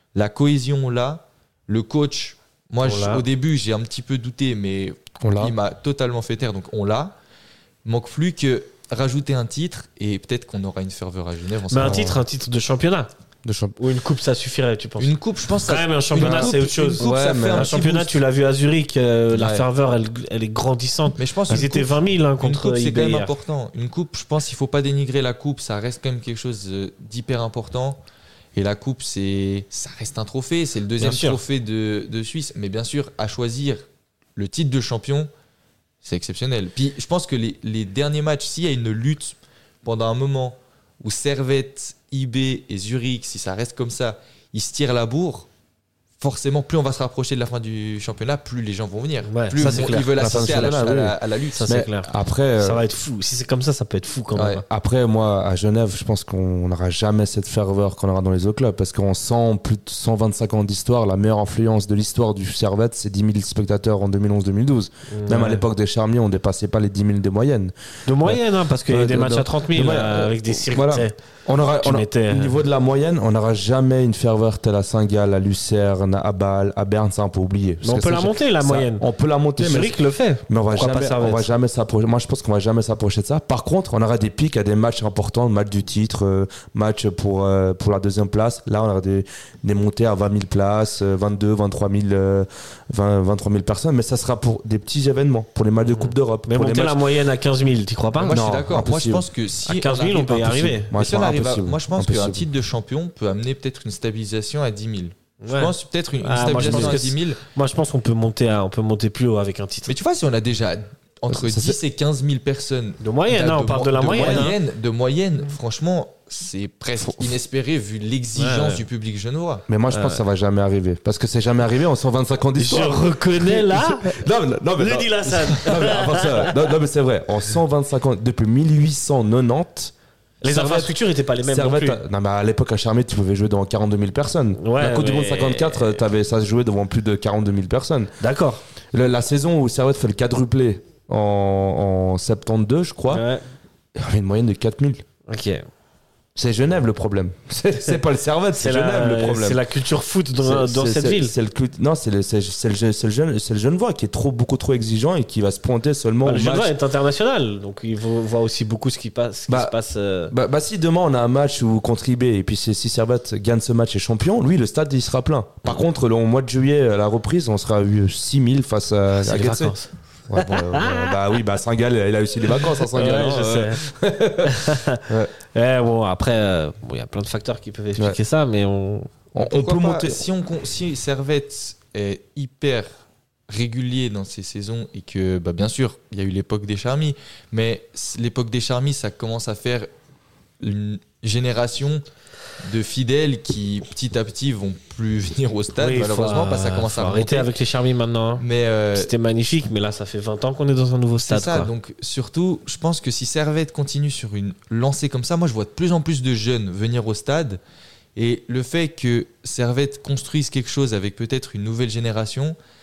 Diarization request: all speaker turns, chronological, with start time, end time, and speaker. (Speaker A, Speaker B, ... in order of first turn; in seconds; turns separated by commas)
Speaker A: 0.1-7.2, Speaker B: 2.8-3.2, Speaker C: 5.2-5.5, Speaker A: 7.8-12.0, Speaker B: 11.7-13.1, Speaker C: 11.8-12.2, Speaker C: 13.4-13.8, Speaker B: 13.8-23.3, Speaker A: 15.0-18.1, Speaker C: 16.2-17.8, Speaker C: 19.3-19.7, Speaker A: 21.2-28.0, Speaker A: 28.5-33.9, Speaker B: 31.0-31.4, Speaker A: 34.4-35.3, Speaker A: 36.0-45.5, Speaker A: 46.2-51.9, Speaker B: 49.2-50.9, Speaker C: 49.6-52.9, Speaker B: 51.5-54.6, Speaker C: 54.3-80.0, Speaker B: 65.1-65.7, Speaker B: 68.1-71.2, Speaker B: 71.8-72.6, Speaker B: 77.8-79.1, Speaker B: 79.6-81.5, Speaker C: 80.5-97.0, Speaker B: 95.8-98.4, Speaker A: 98.2-107.4, Speaker C: 98.3-99.2, Speaker B: 99.7-100.9, Speaker C: 100.8-102.5, Speaker B: 105.4-110.0, Speaker C: 106.6-106.9, Speaker A: 109.9-119.7, Speaker C: 111.3-111.8, Speaker B: 113.0-114.6, Speaker C: 117.0-117.4, Speaker B: 118.4-118.8, Speaker C: 119.7-129.9, Speaker B: 119.9-120.2, Speaker B: 122.6-124.2, Speaker B: 124.8-126.8, Speaker B: 130.4-132.0, Speaker C: 130.5-138.2, Speaker B: 134.6-136.0, Speaker B: 138.2-138.6, Speaker C: 138.9-143.2, Speaker B: 143.1-143.4, Speaker C: 144.0-145.0, Speaker B: 145.3-145.6, Speaker C: 146.4-149.6, Speaker B: 148.5-151.3, Speaker C: 150.4-156.7, Speaker B: 156.2-160.3, Speaker C: 159.5-159.8, Speaker C: 160.3-169.8, Speaker B: 169.2-169.9, Speaker C: 170.3-175.3, Speaker B: 170.4-171.2, Speaker B: 172.6-173.9, Speaker B: 174.4-179.2, Speaker C: 179.3-180.2, Speaker A: 179.3-189.9, Speaker A: 190.6-192.1, Speaker A: 192.6-197.5, Speaker B: 195.8-201.7, Speaker A: 198.4-199.1, Speaker A: 201.2-207.6, Speaker A: 208.2-212.6